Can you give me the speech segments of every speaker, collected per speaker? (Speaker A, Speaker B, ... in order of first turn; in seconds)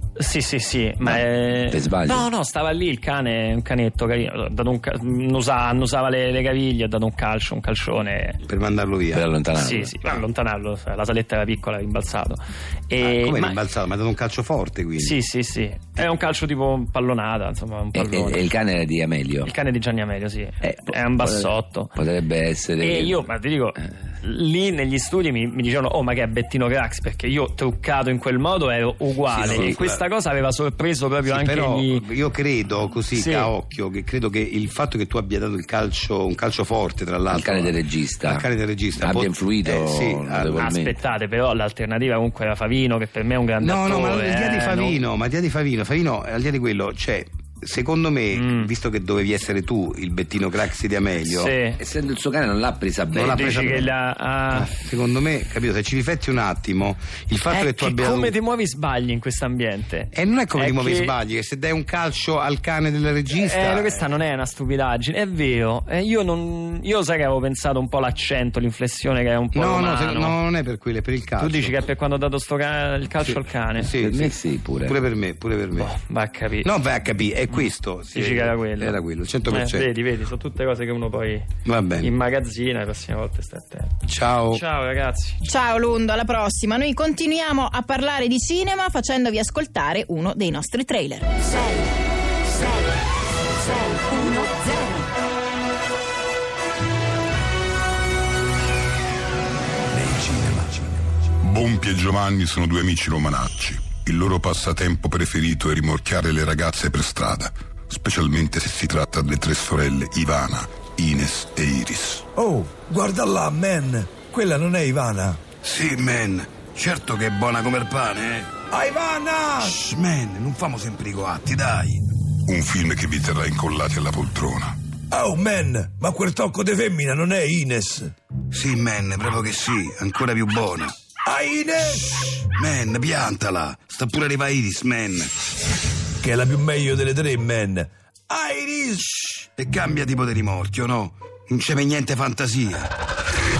Speaker A: 0.2-8.4, 9.5-13.6, 15.0-18.5, 19.4-21.9, 22.8-32.0, 33.1-33.5, 40.5-45.0, 48.3-48.7, 51.2-51.8, 53.3-54.7, 57.5-61.1, 63.3-70.4, 71.4-73.9, 75.7-76.7, 77.5-84.0, 84.5-85.4
Speaker B: 1.0-2.3, 9.1-9.9, 17.9-19.5, 20.6-23.3, 29.4-29.9, 37.3-41.0, 51.7-53.7, 73.9-75.0
Speaker C: 8.4-9.1, 13.0-15.1, 29.3-30.0, 31.2-37.7, 38.3-40.4, 43.6-51.5, 53.1-53.9, 54.5-58.3, 60.1-63.9, 69.5-71.7, 73.8-74.3, 74.9-75.8, 76.6-79.9, 81.6-82.1, 84.0-84.6
Speaker D: 85.4-91.6, 93.9-94.6
Speaker E: 101.4-112.3, 122.5-124.8
Speaker F: 112.3-115.4, 118.7-119.8, 125.1-128.1, 131.2-132.4, 136.2-139.4
Speaker G: 115.6-118.6, 119.8-122.0, 128.5-130.9, 132.6-135.3, 139.6-142.9